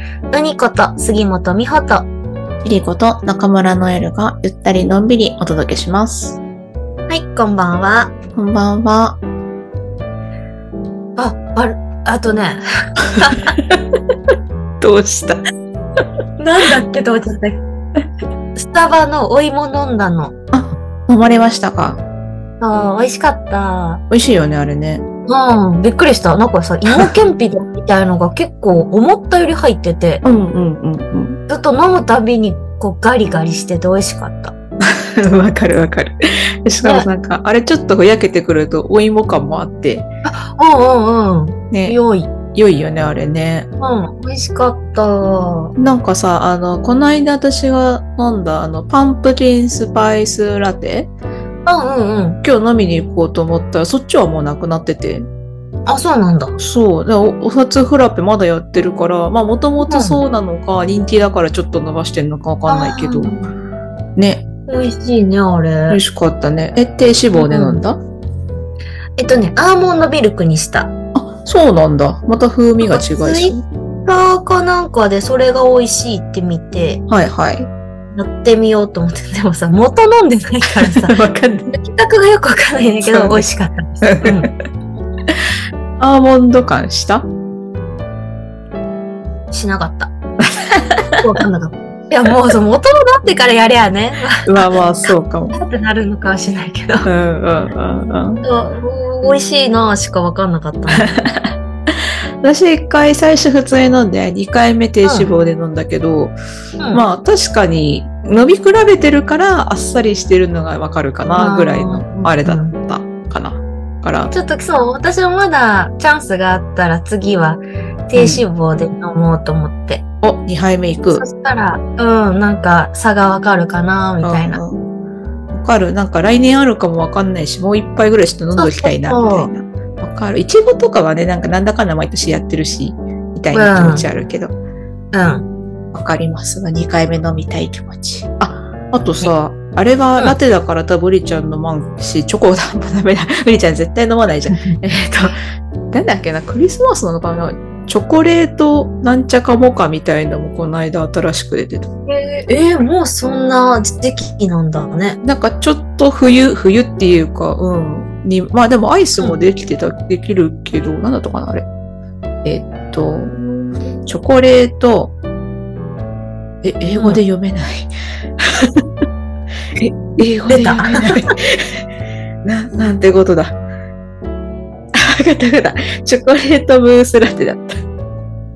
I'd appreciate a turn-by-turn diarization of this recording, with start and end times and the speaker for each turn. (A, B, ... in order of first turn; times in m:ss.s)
0:00.3-0:02.1 A
0:02.6-0:06.4 B
0:07.1-0:08.1 A
0:08.4-0:09.2 B
0:11.2-0:12.6 A
0:13.2-0:13.5 A
0:13.6-0:14.0 B
0:14.8-0:15.4 B
0:16.4-0:17.6 A
0:18.6-0:20.3 A
0:20.5-0:22.0 B
0:22.6-0:24.0 A
0:24.1-0:25.0 B
0:25.3-0:30.2 A
0:30.2-0:31.4 B
0:31.5-0:34.5 A
0:34.9-0:40.1 B
0:40.2-0:42.3 A
0:41.7-0:42.0 B
0:42.5-0:43.7 B
0:43.8-0:45.7 A
0:45.8-0:51.1 B
0:51.7-0:52.4 A
0:52.4-0:55.3 B
0:55.9-0:56.6 A
0:56.6-1:03.3 B
0:59.8-1:00.2 A
1:02.7-1:03.5 A
1:04.2-1:04.4 B
1:04.7-1:06.0 A
1:05.9-1:08.0 B
1:07.3-1:07.8 A
1:09.2-1:10.9 A
1:11.1-1:13.6 B
1:12.8-1:17.0 A
1:17.1-1:17.7 B
1:18.1-1:21.1 A
1:20.8-1:21.7 B
1:21.7-1:24.5 A
1:23.0-1:23.4 B
1:24.0-1:24.5 B
1:26.0-1:27.3 B
1:29.5-1:30.1 A
1:30.5-1:31.2 B
1:31.2-1:34.8 A
1:34.4-1:35.6 B
1:35.5-1:37.1 A
1:37.0-1:38.4 B
1:38.4-1:41.1 A
1:41.0-1:46.4 B
1:45.0-1:45.3 A
1:46.9-1:54.3 B
1:51.4-1:52.8 A
1:54.3-2:00.0 A
1:58.2-1:58.4 B
2:00.2-2:01.2 B
2:01.1-2:04.6 A
2:04.2-2:04.8 B
2:05.5-2:14.5 B
2:08.6-2:09.5 A
2:13.5-2:14.1 A
2:15.1-2:15.5 A
2:15.9-2:25.4 B
2:25.9-2:31.9 B
2:32.1-2:35.2 A
2:35.2-2:41.7 B
2:42.4-2:43.4 B
2:44.0-2:45.1 B
2:46.6-2:48.9 B
2:47.0-2:47.2 A
2:49.8-2:51.8 B
2:50.5-2:51.2 A
2:52.4-2:53.6 B
2:54.9-2:57.8 B